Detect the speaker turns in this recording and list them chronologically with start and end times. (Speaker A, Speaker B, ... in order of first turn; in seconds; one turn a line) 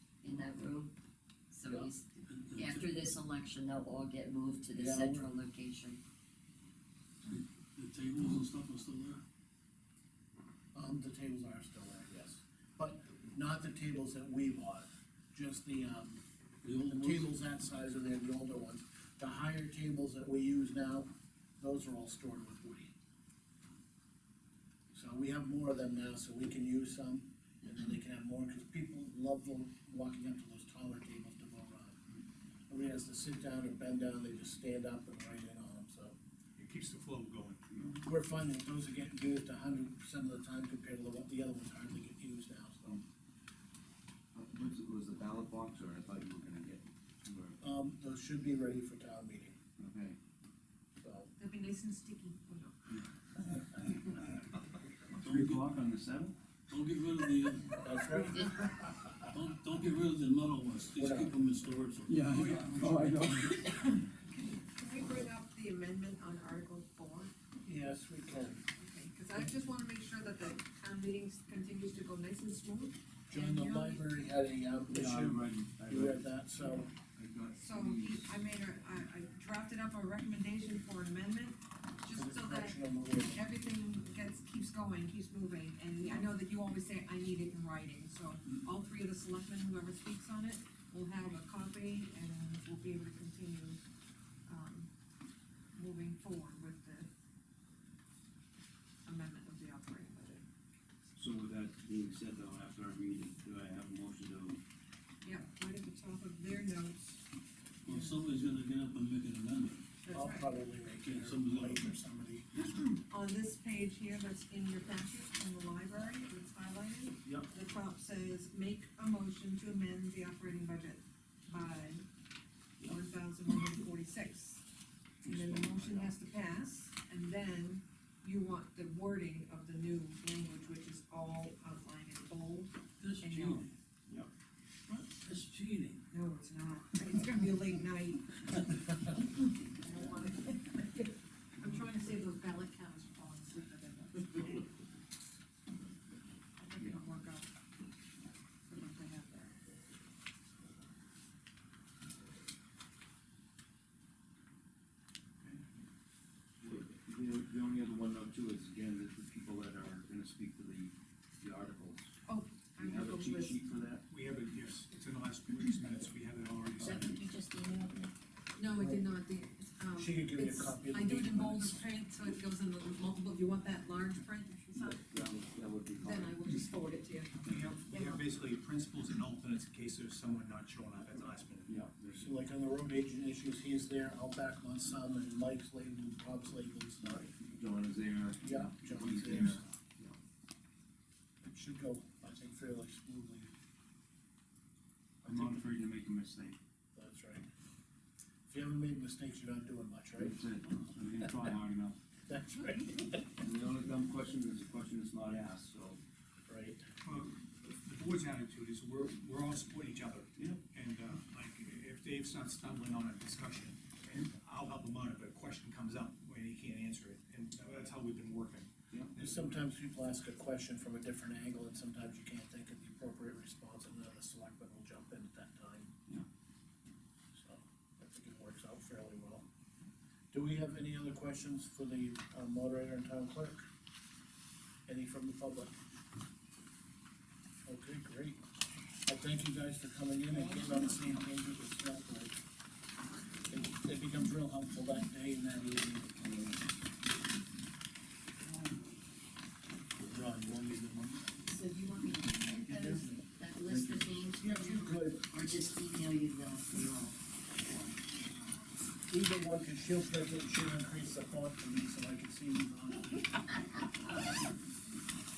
Speaker A: 0.2-0.9
Speaker A: 1.5-6.0
Speaker B: 2.3-2.9
Speaker C: 4.7-5.3
Speaker B: 7.3-9.2
Speaker C: 10.7-16.2
Speaker B: 16.6-17.3
Speaker C: 16.8-22.9
Speaker C: 24.9-32.1
Speaker C: 32.7-36.2
Speaker D: 36.6-37.7
Speaker C: 38.0-43.0
Speaker E: 44.3-47.6
Speaker C: 47.6-49.6
Speaker E: 49.8-50.2
Speaker C: 51.0-51.3
Speaker F: 51.4-52.8
Speaker B: 55.2-55.7
Speaker E: 55.2-56.4
Speaker B: 56.7-57.9
Speaker C: 57.8-59.1
Speaker B: 59.2-62.9
Speaker C: 61.0-61.7
Speaker E: 62.1-63.7
Speaker D: 62.3-63.2
Speaker F: 64.3-67.3
Speaker C: 67.6-68.6
Speaker F: 68.8-74.1
Speaker C: 73.3-76.9
Speaker E: 74.9-78.4
Speaker F: 77.5-93.8
Speaker C: 82.2-83.4
Speaker F: 94.5-94.9
Speaker F: 95.8-97.1
Speaker F: 99.0-100.4
Speaker E: 101.2-104.6
Speaker F: 105.2-107.2
Speaker B: 107.8-109.8
Speaker F: 107.9-108.2
Speaker F: 110.0-110.5
Speaker C: 110.1-112.5
Speaker B: 111.0-111.9
Speaker F: 112.9-122.1
Speaker F: 122.8-124.7
Speaker F: 125.2-133.7
Speaker E: 125.3-126.1
Speaker B: 133.0-133.7
Speaker B: 135.1-136.0
Speaker F: 136.1-144.7
Speaker F: 146.6-147.5
Speaker F: 148.7-149.6
Speaker E: 156.6-162.1
Speaker F: 162.3-163.6
Speaker E: 162.8-164.1
Speaker D: 164.1-167.2
Speaker A: 166.8-168.1
Speaker F: 168.6-175.1
Speaker C: 168.7-169.0
Speaker C: 169.9-171.8
Speaker E: 174.8-176.4
Speaker F: 176.0-178.2
Speaker E: 177.4-177.7
Speaker D: 177.5-182.2
Speaker E: 181.7-182.3
Speaker C: 182.2-187.3
Speaker E: 187.1-190.1
Speaker C: 188.4-189.6
Speaker C: 191.4-193.5
Speaker C: 195.2-195.6
Speaker E: 195.2-196.6
Speaker C: 196.9-197.4
Speaker C: 198.5-200.4
Speaker E: 200.2-202.0
Speaker C: 202.3-203.4
Speaker E: 203.4-206.0
Speaker C: 206.5-206.8
Speaker D: 207.0-219.6
Speaker C: 219.2-225.9
Speaker C: 227.4-229.5
Speaker C: 230.3-233.7
Speaker C: 234.9-235.7
Speaker C: 237.7-238.4
Speaker C: 239.1-242.4
Speaker C: 243.5-246.2
Speaker E: 246.2-246.6
Speaker C: 250.0-251.3
Speaker A: 251.4-257.2
Speaker C: 252.5-255.3
Speaker C: 259.1-263.5